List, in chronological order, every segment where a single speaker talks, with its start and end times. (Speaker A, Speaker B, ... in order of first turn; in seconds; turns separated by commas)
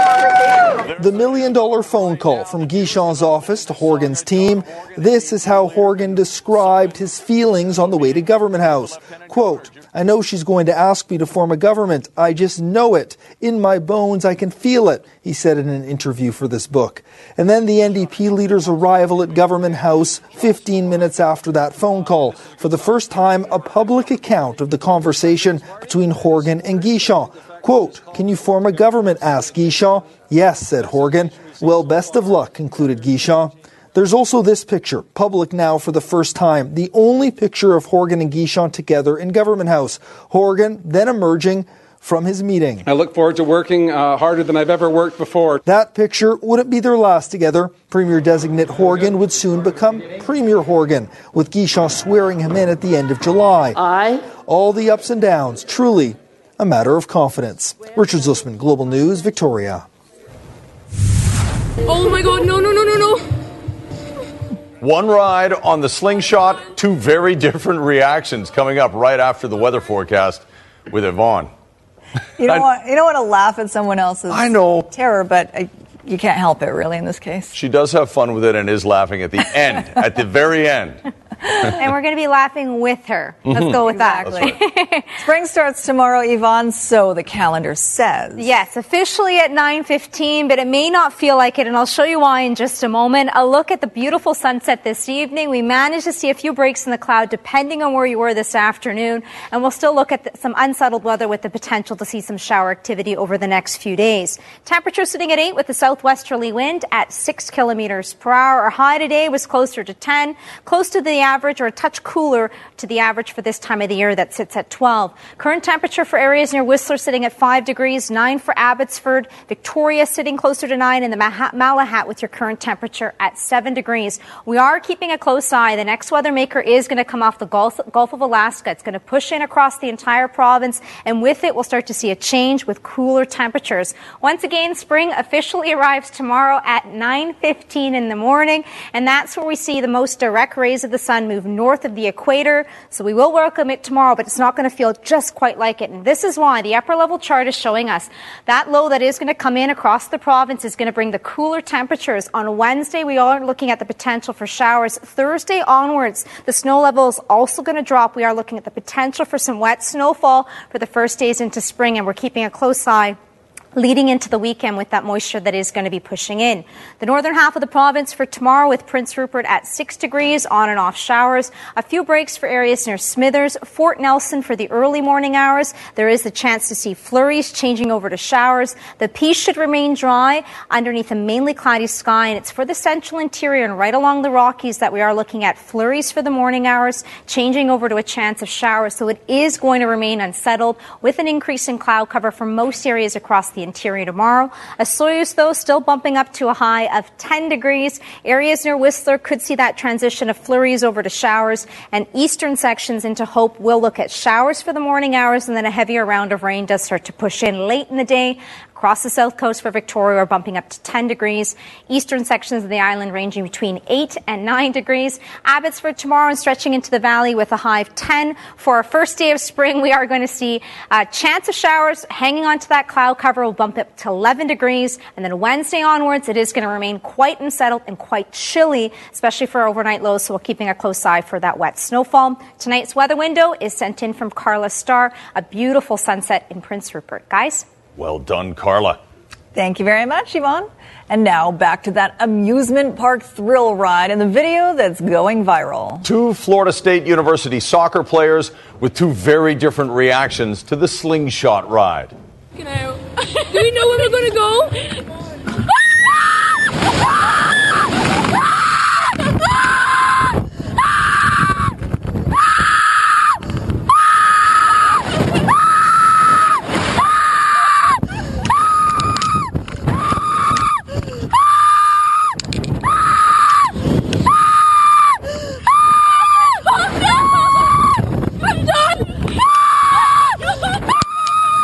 Speaker A: 1.0-42.8, Speaker B: 42.8-45.6, Speaker A: 45.6-53.8, Speaker A: 54.5-59.9, Speaker C: 61.9-63.2, Speaker D: 64.8-71.5, Speaker E: 72.4-77.5, Speaker D: 74.3-74.9, Speaker D: 77.5-81.0, Speaker F: 81.8-85.1, Speaker D: 83.5-84.6, Speaker E: 83.7-84.5, Speaker E: 85.2-88.5, Speaker F: 88.4-163.2, Speaker F: 163.7-237.7, Speaker D: 237.9-239.0, Speaker E: 239.6-246.1, Speaker D: 246.0-252.1, Speaker C: 252.6-255.0, Speaker C: 278.4-279.3, Speaker C: 280.1-280.8